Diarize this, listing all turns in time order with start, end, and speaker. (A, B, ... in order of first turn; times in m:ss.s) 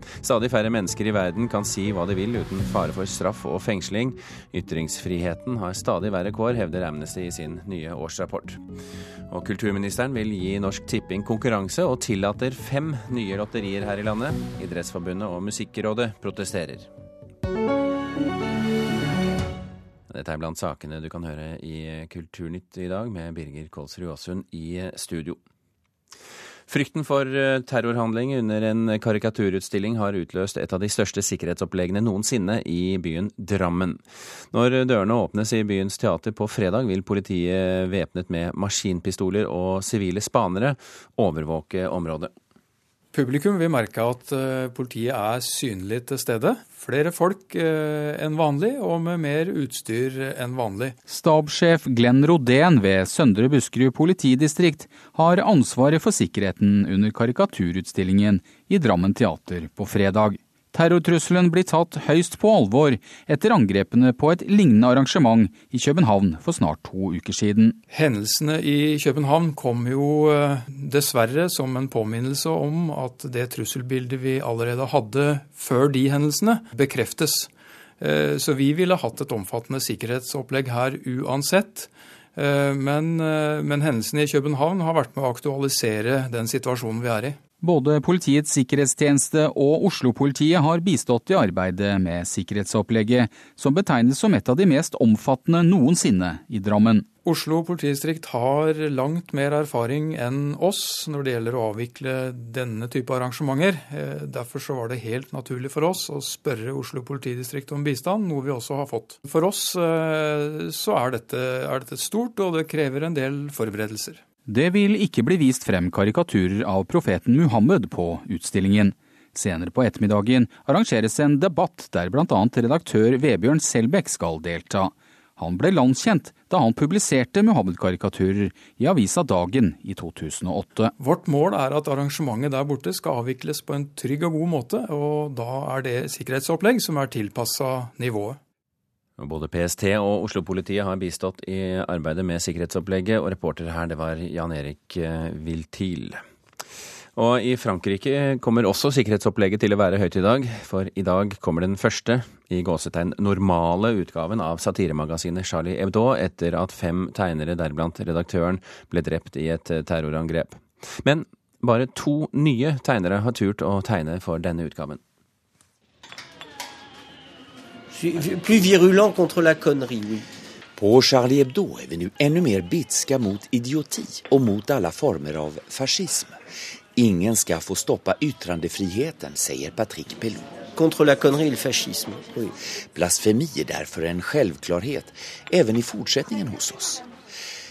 0:00.2-0:08.6 A
0:09.3-0:16.9 A
0:20.1-0:25.4 A
0:26.7-0:42.3 A
0:43.1-0:51.0 B
0:51.1-1:07.8 C
1:07.9-1:27.4 B
1:27.6-1:37.1 C
1:37.2-1:54.2 B
1:54.5-2:10.9 C
2:11.0-2:18.4 B
2:19.2-2:26.2 A
2:27.2-2:45.0 A
2:47.9-2:50.3 D
2:50.8-2:56.4 E
2:57.0-3:00.6 E
3:00.8-3:02.6 D
3:02.9-3:07.0 E